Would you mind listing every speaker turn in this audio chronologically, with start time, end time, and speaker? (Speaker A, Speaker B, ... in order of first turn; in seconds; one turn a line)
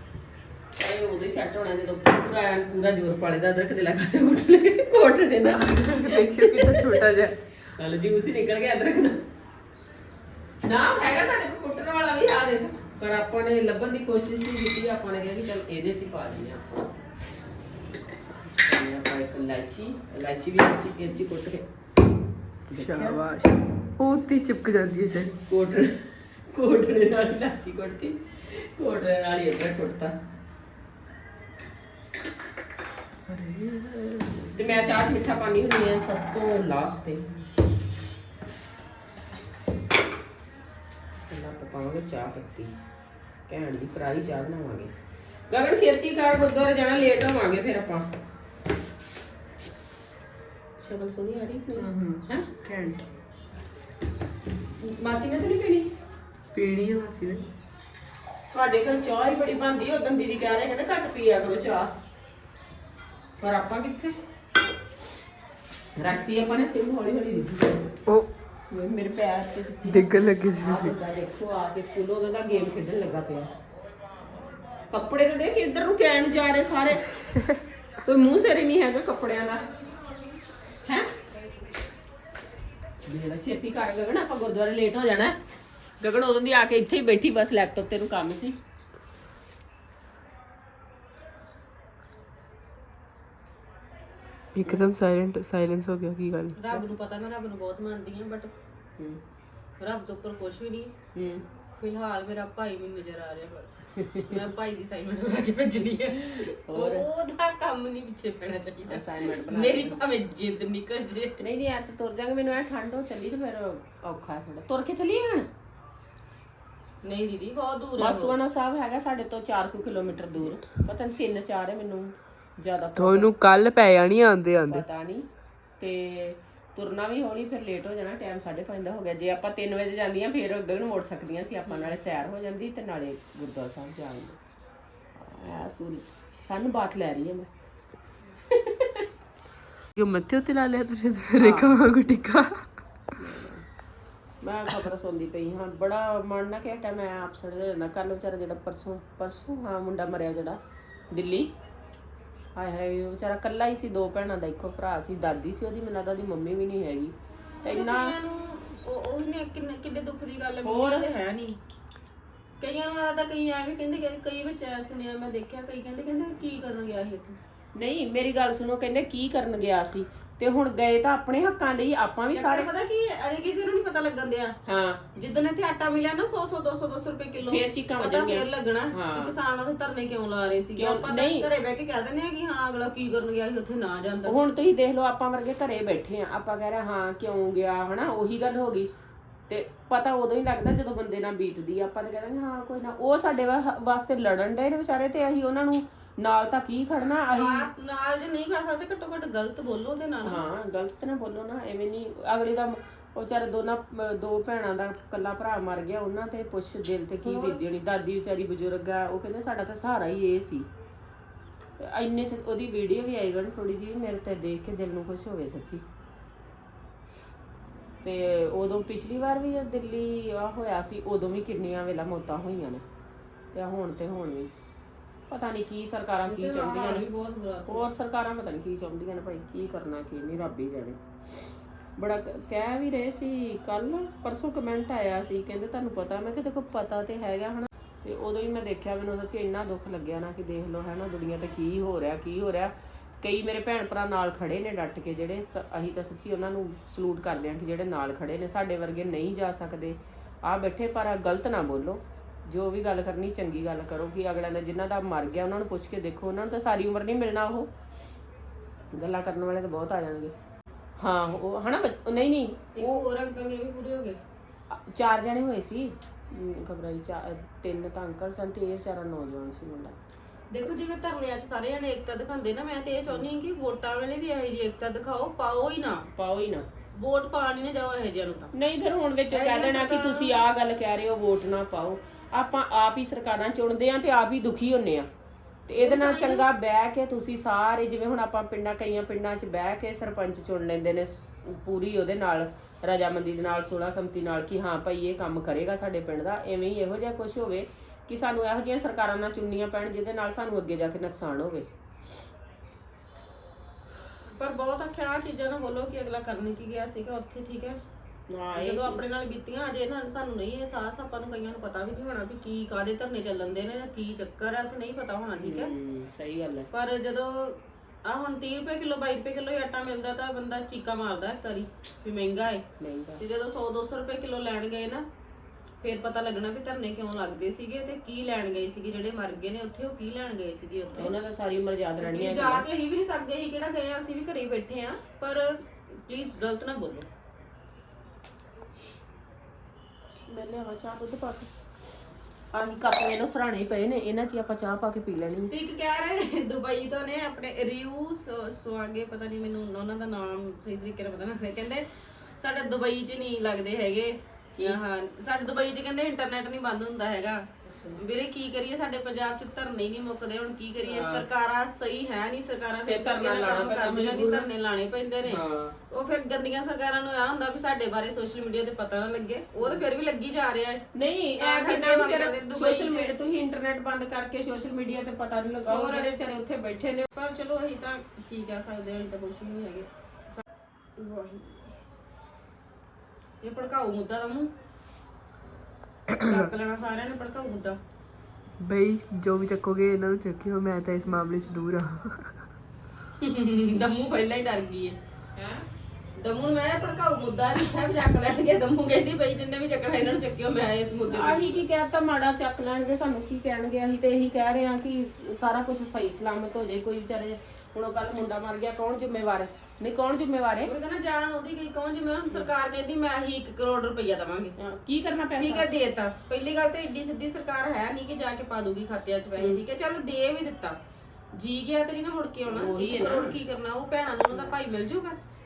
Speaker A: 0.8-7.0
Speaker B: 5.5-7.4
Speaker A: 7.7-9.2
Speaker A: 10.6-16.8
Speaker A: 18.4-21.6
Speaker B: 22.7-25.3
Speaker A: 22.7-23.2
Speaker A: 25.4-30.1
Speaker B: 33.3-34.6
Speaker A: 34.5-37.4
Speaker A: 41.3-42.7
Speaker A: 43.5-44.9
Speaker A: 45.5-48.1
Speaker A: 50.8-52.5
Speaker B: 51.8-53.0
Speaker A: 54.8-55.9
Speaker B: 56.5-57.5
Speaker A: 58.4-61.9
Speaker A: 63.4-64.2
Speaker A: 66.0-67.8
Speaker A: 68.7-73.5
Speaker B: 69.9-71.0
Speaker A: 74.9-77.0
Speaker B: 77.3-77.6
Speaker A: 78.0-79.6
Speaker A: 83.0-85.3
Speaker A: 86.0-88.5
Speaker B: 94.5-96.6
Speaker C: 96.6-98.5
Speaker C: 99.8-100.9
Speaker A: 101.1-101.4
Speaker C: 101.8-111.4
Speaker A: 104.0-104.3
Speaker A: 106.5-107.0
Speaker A: 108.9-110.0
Speaker A: 111.4-115.5
Speaker C: 117.0-118.3
Speaker A: 118.0-123.3
Speaker B: 123.0-124.8
Speaker A: 124.7-125.2
Speaker A: 125.8-134.4
Speaker A: 135.1-137.5
Speaker B: 139.9-142.6
Speaker A: 141.4-141.8
Speaker A: 143.2-143.6
Speaker A: 144.4-150.6
Speaker A: 151.1-151.5
Speaker A: 152.5-158.2
Speaker C: 157.6-161.6
Speaker A: 160.6-161.1
Speaker C: 162.6-167.4
Speaker A: 167.8-172.7
Speaker C: 172.3-174.5
Speaker A: 174.6-175.0
Speaker C: 175.1-184.4
Speaker A: 177.4-179.3
Speaker A: 180.8-181.5
Speaker A: 184.2-188.9
Speaker A: 189.5-197.7
Speaker C: 197.3-200.4
Speaker A: 200.2-210.7
Speaker C: 207.2-207.6
Speaker A: 211.8-215.8
Speaker A: 218.0-222.8
Speaker A: 223.5-224.5
Speaker A: 225.3-227.0
Speaker C: 226.2-227.8
Speaker A: 227.7-231.0
Speaker A: 232.0-257.7
Speaker A: 258.9-260.3
Speaker A: 261.0-263.0
Speaker C: 262.7-264.2
Speaker A: 264.7-269.9
Speaker C: 270.5-276.0
Speaker A: 276.1-276.7
Speaker C: 276.9-278.5
Speaker A: 278.5-285.1
Speaker C: 279.3-280.4
Speaker A: 285.7-301.6
Speaker C: 285.7-286.5
Speaker C: 304.4-307.8
Speaker A: 308.3-309.1
Speaker C: 308.5-315.7
Speaker A: 315.4-316.7
Speaker C: 316.7-322.6
Speaker A: 322.8-323.2
Speaker C: 323.2-325.1
Speaker C: 325.8-331.1
Speaker A: 330.9-332.6
Speaker C: 332.0-337.1
Speaker A: 340.3-341.5
Speaker A: 342.5-345.5
Speaker C: 345.5-351.9
Speaker C: 352.4-357.4
Speaker A: 357.6-358.0
Speaker C: 358.0-365.4
Speaker A: 360.8-361.2
Speaker A: 362.8-364.5
Speaker A: 365.2-365.7
Speaker C: 365.9-370.8
Speaker A: 370.9-377.1
Speaker C: 371.4-373.1
Speaker C: 375.7-376.1
Speaker C: 377.1-379.9
Speaker A: 381.0-381.6
Speaker C: 383.4-384.5
Speaker C: 386.2-387.8
Speaker B: 388.6-392.4
Speaker C: 393.2-395.0
Speaker C: 396.2-401.6
Speaker A: 401.1-410.7
Speaker C: 410.6-414.5
Speaker A: 414.6-415.7
Speaker C: 415.4-420.8
Speaker A: 419.4-419.6
Speaker C: 421.3-425.2
Speaker A: 422.5-423.4